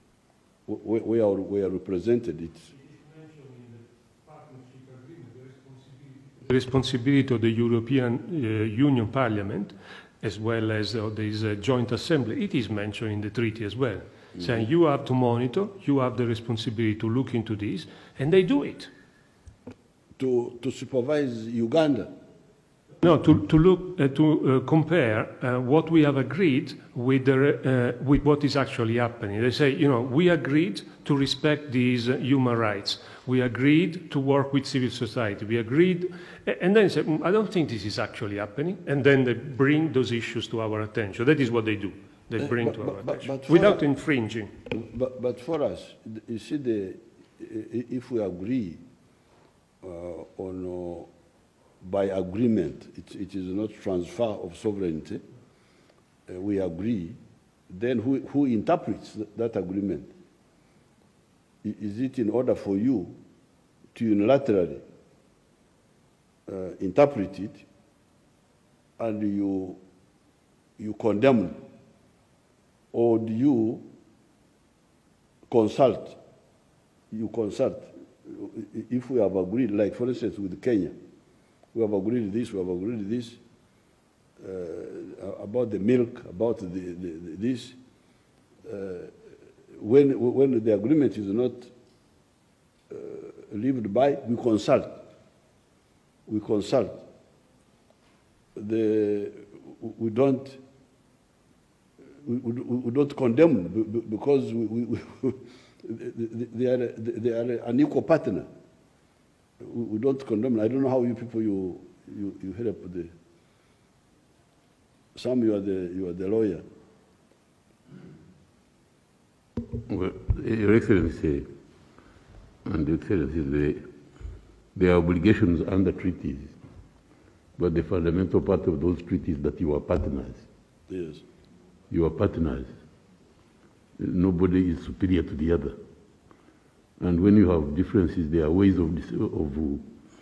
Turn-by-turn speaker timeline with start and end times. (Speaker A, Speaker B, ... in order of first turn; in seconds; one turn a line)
Speaker A: 0.7-2.7
Speaker B: 2.9-18.9
Speaker A: 20.2-22.1
Speaker B: 23.0-44.5
Speaker A: 42.4-43.8
Speaker A: 44.7-48.8
Speaker A: 49.8-51.1
Speaker A: 51.8-55.2
Speaker A: 56.3-60.1
Speaker A: 61.6-63.1
Speaker A: 63.9-64.8
Speaker A: 66.5-67.6
Speaker A: 69.0-69.8
Speaker A: 70.8-71.6
Speaker A: 72.9-73.8
Speaker A: 75.5-76.2
Speaker A: 77.1-80.9
Speaker A: 81.7-83.4
Speaker A: 84.4-87.8
Speaker A: 88.6-89.1
Speaker A: 89.7-91.7
Speaker A: 92.9-95.0
Speaker A: 96.3-97.0
Speaker A: 98.5-100.6
Speaker A: 102.2-108.5
Speaker A: 109.6-113.1
Speaker A: 115.1-116.6
Speaker C: 119.8-121.5
Speaker C: 122.6-123.8
Speaker C: 124.7-126.5
Speaker C: 127.6-130.4
Speaker A: 130.9-131.2
Speaker C: 131.9-132.7
Speaker C: 134.0-135.8
Speaker C: 137.0-139.8